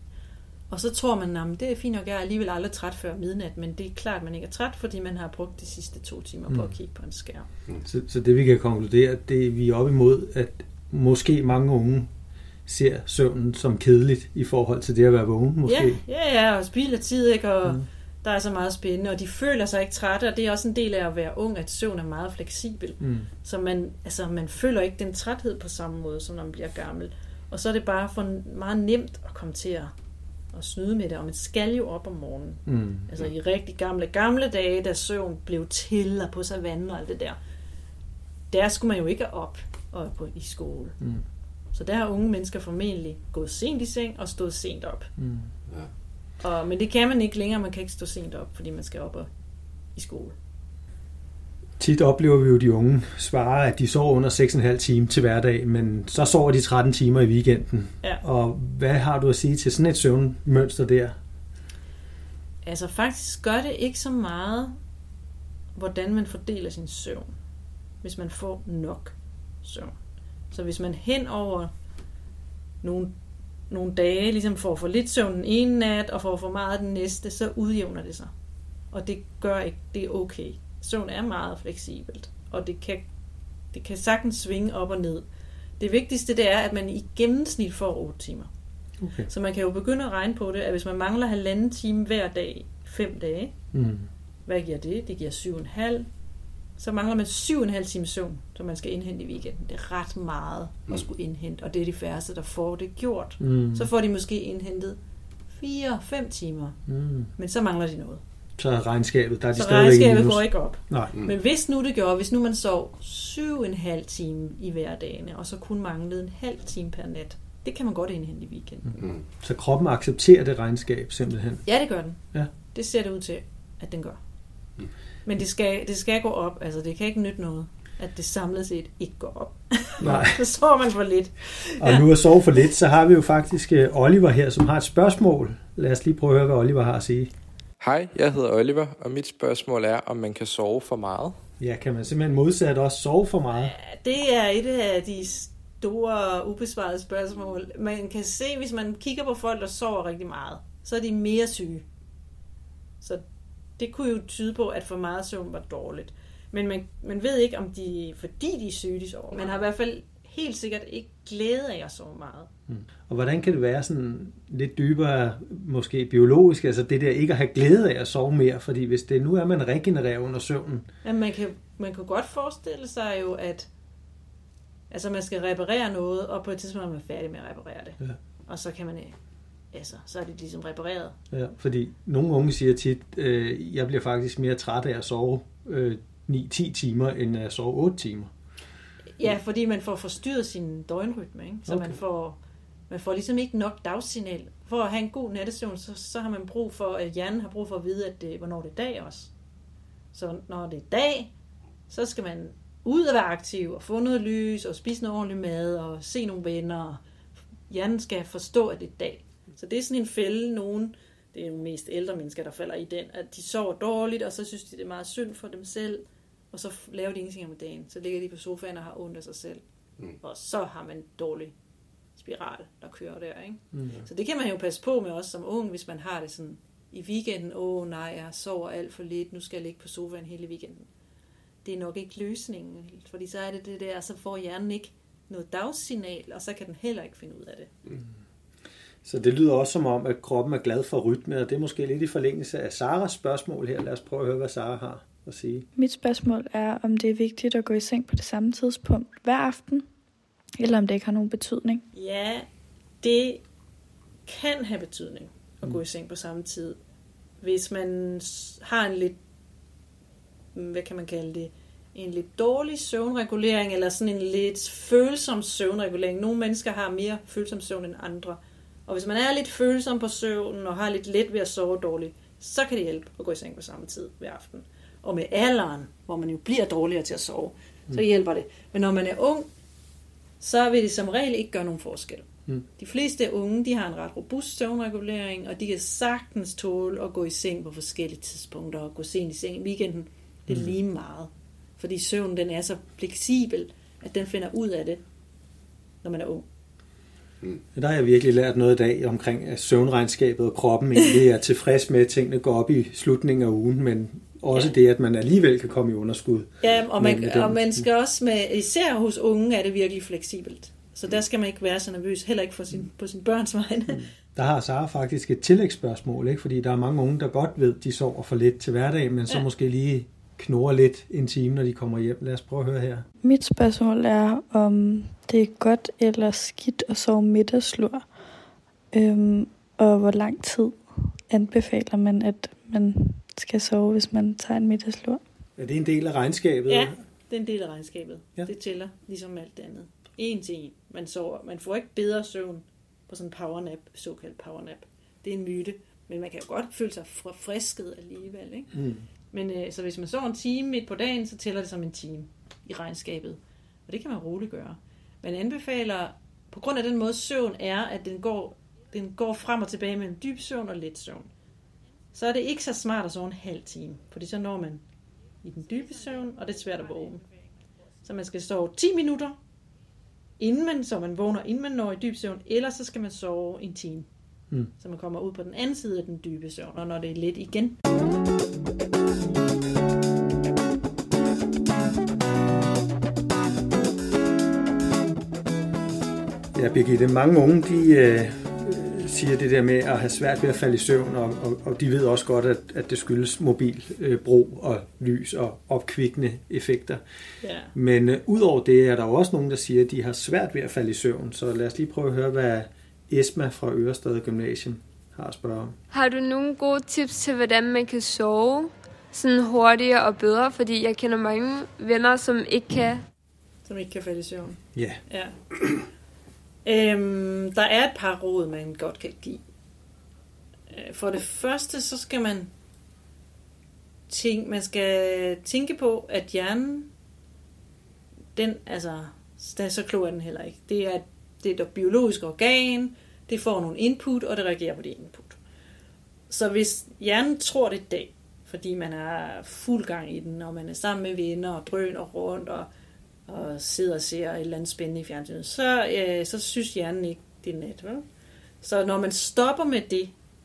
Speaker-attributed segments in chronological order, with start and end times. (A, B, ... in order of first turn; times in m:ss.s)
0:00.7-0:07.5 A
0:07.8-0:12.1 B
0:12.7-0:16.0 B
0:15.6-0:29.9 A
0:23.0-0:23.3 B
0:30.5-0:37.4 A
0:32.6-0:33.1 B
0:38.5-0:41.0 A
0:41.7-0:45.1 A
0:45.2-0:45.5 B
0:46.4-0:49.3 A
0:49.9-0:50.3 A
0:51.8-1:01.2 B
1:02.6-1:04.8 A
1:05.7-1:07.3 A
1:08.0-1:09.9 A
1:10.5-1:11.7 A
1:12.8-1:13.1 A
1:13.7-1:18.3 A
1:18.9-1:23.0 A
1:23.7-1:25.2 A
1:25.8-1:28.5 A
1:29.0-1:29.3 B
1:29.3-1:33.5 A
1:33.7-1:34.1 B
1:34.4-1:36.1 A
1:36.8-1:45.0 A
1:43.4-1:43.9 B
1:45.5-1:46.8 A
1:46.9-1:47.3 B
1:47.4-1:48.2 A
1:48.6-1:51.2 B
1:49.5-1:59.0 A
1:59.3-2:01.6 B
2:01.6-2:02.2 A
2:02.7-2:04.2 A
2:05.2-2:12.1 A
2:10.0-2:10.4 B
2:11.8-2:17.3 B
2:17.8-2:21.4 C
2:21.6-2:23.7 B
2:23.6-2:31.8 A
2:33.8-2:42.5 A
2:42.7-2:50.8 B
2:51.0-2:53.7 A
2:54.9-2:59.1 A
2:59.7-3:01.1 A
3:01.3-3:08.3 B
3:09.2-3:12.4 A
3:11.7-3:12.0 B
3:12.9-3:19.3 A
3:20.1-3:21.3 A
3:21.9-3:27.0 A
3:27.7-3:39.6 A
3:40.2-3:41.5 A
3:42.2-3:50.8 A
3:51.6-3:57.7 A
3:59.0-4:05.6 B
4:05.8-4:09.8 D
4:10.6-4:11.8 D
4:11.9-4:12.4 A
4:13.0-4:13.4 A
4:14.2-4:16.8 A
4:17.4-4:19.2 A
4:20.5-4:39.4 A
4:40.4-4:55.0 A
4:50.5-4:50.7 B
4:56.0-4:56.4 A
4:57.7-5:07.9 B
5:06.6-5:14.0 A
5:13.9-5:23.0 B
5:23.2-5:28.0 D
5:28.9-5:35.2 D
5:35.6-5:36.9 B
5:36.7-5:48.7 A
5:48.7-5:49.0 B
5:49.3-6:01.3 A
6:02.1-6:04.8 A
6:05.4-6:07.2 A
6:08.0-6:09.4 A
6:10.4-6:14.0 A
6:14.8-6:17.8 A
6:26.5-6:37.0 B
6:37.4-6:37.7 A
6:37.7-6:45.7 B
6:45.9-6:53.0 E
6:53.6-6:55.3 A
6:54.7-6:55.0 B
6:56.6-6:59.4 A
7:00.7-7:02.5 A
7:04.1-7:06.9 A
7:08.4-7:15.4 A
7:16.3-7:22.7 A
7:23.3-7:28.0 A
7:28.6-7:30.1 A